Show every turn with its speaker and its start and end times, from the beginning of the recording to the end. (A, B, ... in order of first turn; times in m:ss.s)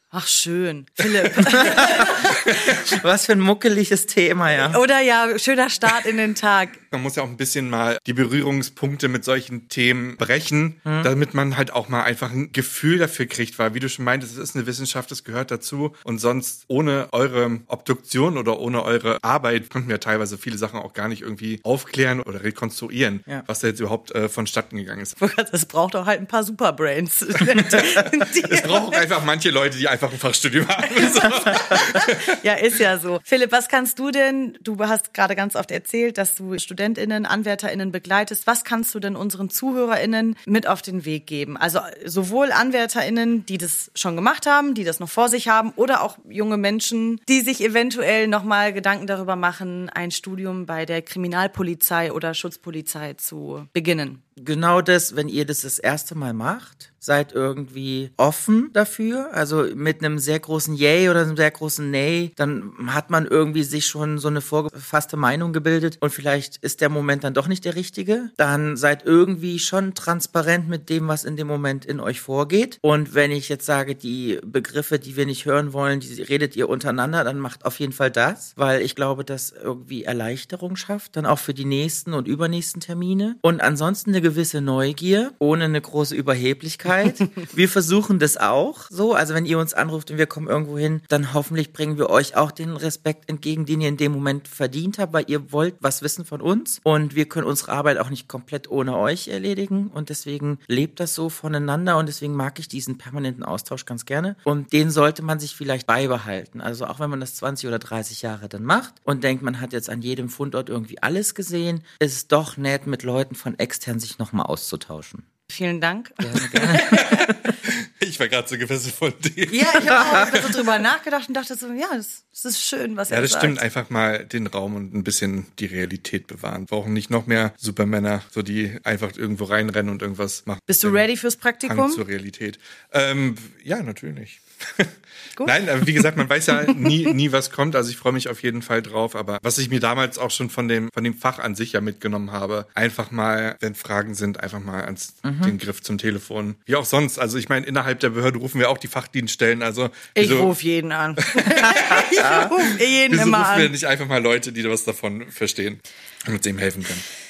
0:00.1-0:02.8 A
0:01.6-0:04.8 B
0:02.3-0:02.8 C
0:04.6-0:06.8 A
0:06.9-0:25.2 C
0:10.8-0:11.1 B
0:25.2-0:29.0 A
0:27.6-0:32.3 C
0:30.9-0:54.2 A
0:54.4-1:55.2 B
1:55.5-1:57.5 A
1:56.3-1:56.9 B
1:56.6-2:00.6 C
1:59.5-2:03.6 A
1:59.9-2:00.3 B
2:03.1-2:11.0 C
2:10.7-2:12.0 A
2:11.6-2:30.5 C
2:16.6-2:17.1 A
2:25.2-2:25.5 B
2:30.1-2:33.7 A
2:31.2-2:37.0 C
2:32.2-2:32.5 B